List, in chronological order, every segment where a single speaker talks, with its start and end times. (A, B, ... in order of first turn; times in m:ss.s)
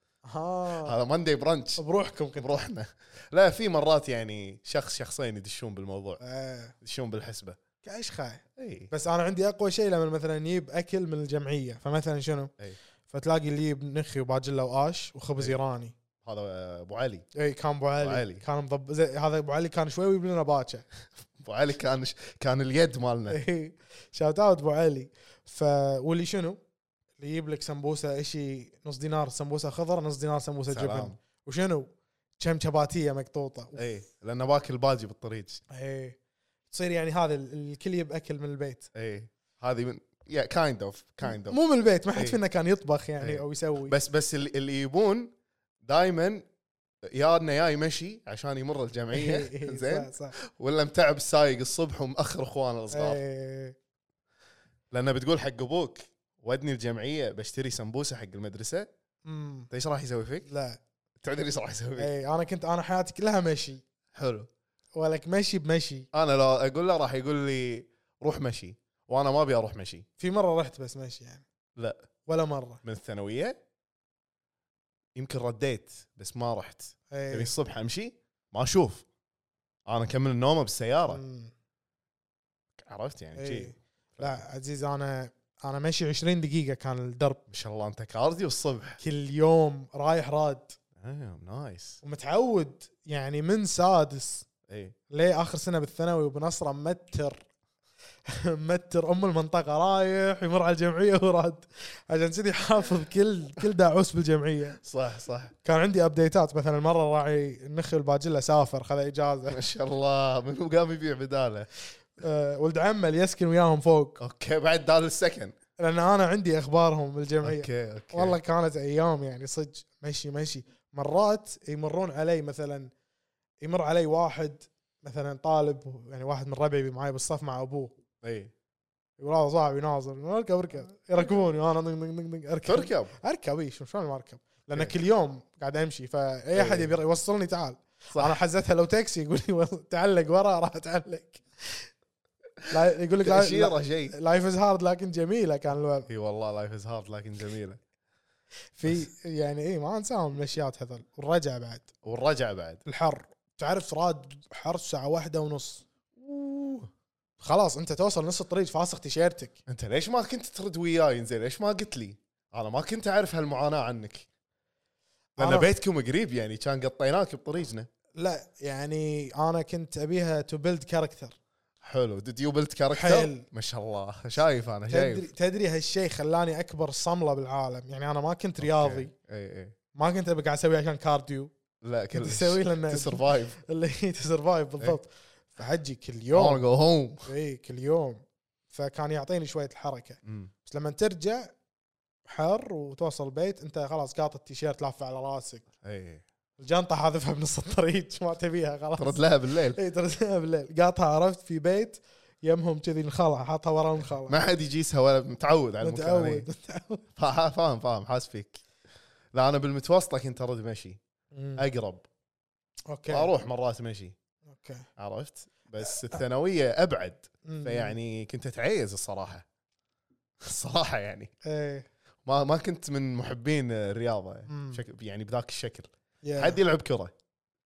0:00.2-0:01.0 A
0:00.8-0:01.8 B
0:01.8-0:02.6 A
0:02.4-0:06.2 B
0:06.2-0:06.7 A
0:06.8-0:07.6 B
0:07.8-0:12.5 A
0:08.6-0:08.9 B
0:13.1-0:16.0 A
0:16.2-0:17.3 B
0:17.4-0:20.8 A
0:18.0-0:18.4 B
0:21.4-0:23.4 B
0:23.3-0:26.6 A
0:27.2-0:33.8 A
0:30.7-0:31.2 B
0:33.8-0:35.6 B
0:35.7-0:36.2 A
0:36.7-0:38.9 A
0:38.9-0:41.6 B
0:41.3-0:43.9 A
0:43.2-0:45.3 B
0:45.8-0:46.4 B
0:47.0-0:53.2 B
0:49.1-0:50.4 A
0:52.9-0:53.8 A
0:54.9-0:58.9 B
0:59.2-0:59.7 A
0:59.7-1:00.5 B
1:00.5-1:00.8 A
1:01.2-1:02.1 B
1:02.0-1:03.8 A
1:04.1-1:04.5 B
1:05.0-1:06.1 A
1:06.1-1:10.1 B
1:10.2-1:11.4 A
1:11.8-1:12.0 B
1:12.3-1:12.8 A
1:12.8-1:13.6 B
1:15.2-1:19.0 B
1:17.1-1:17.5 A
1:19.9-1:21.2 B
1:21.1-1:21.5 A
1:22.8-1:24.3 B
1:23.4-1:27.4 A
1:27.5-1:29.0 B
1:29.0-1:30.8 A
1:31.0-1:32.0 B
1:32.0-1:34.5 A
1:34.7-1:35.0 B
1:35.1-1:37.4 A
1:38.3-1:44.8 A
1:44.8-1:45.5 B
1:45.6-1:49.6 A
1:49.5-1:51.7 B
1:52.2-1:54.2 A
1:54.2-1:55.6 B
1:55.8-2:02.9 A
1:57.4-1:58.4 B
2:03.6-2:08.0 A
2:08.2-2:08.5 B
2:09.2-2:21.9 A
2:12.6-2:13.1 B
2:16.5-2:16.9 B
2:18.1-2:18.4 B
2:22.7-2:26.1 A
2:23.2-2:24.2 B
2:26.1-2:27.8 B
2:28.8-2:31.9 A
2:32.0-2:32.8 B
2:32.8-2:35.8 A
2:36.2-2:36.9 B
2:37.4-2:39.6 A
2:39.7-2:44.3 B
2:45.4-2:47.9 B
2:45.4-2:45.7 A
2:48.2-2:51.4 A
2:51.8-2:55.3 B
2:52.9-2:53.5 A
2:54.9-2:59.1 A
2:58.6-2:59.8 B
3:00.0-3:01.5 A
3:01.8-3:03.6 B
3:02.1-3:06.6 A
3:06.3-3:07.3 B
3:07.3-3:11.5 A
3:10.2-3:10.5 B
3:12.3-3:15.6 A
3:15.8-3:16.2 B
3:16.6-3:24.4 A
3:19.0-3:19.8 B
3:24.3-3:26.5 B
3:25.8-3:27.0 A
3:27.2-3:28.6 B
3:29.3-3:31.0 B
3:31.3-3:31.6 A
3:31.6-3:32.0 B
3:32.9-3:33.3 A
3:33.1-3:34.2 B
3:34.5-3:34.9 A
3:35.0-3:39.4 B
3:37.4-3:38.0 A
3:40.4-3:41.3 B
3:41.4-3:41.9 A
3:42.2-3:47.1 B
3:44.5-3:44.8 A
3:46.2-3:46.6 A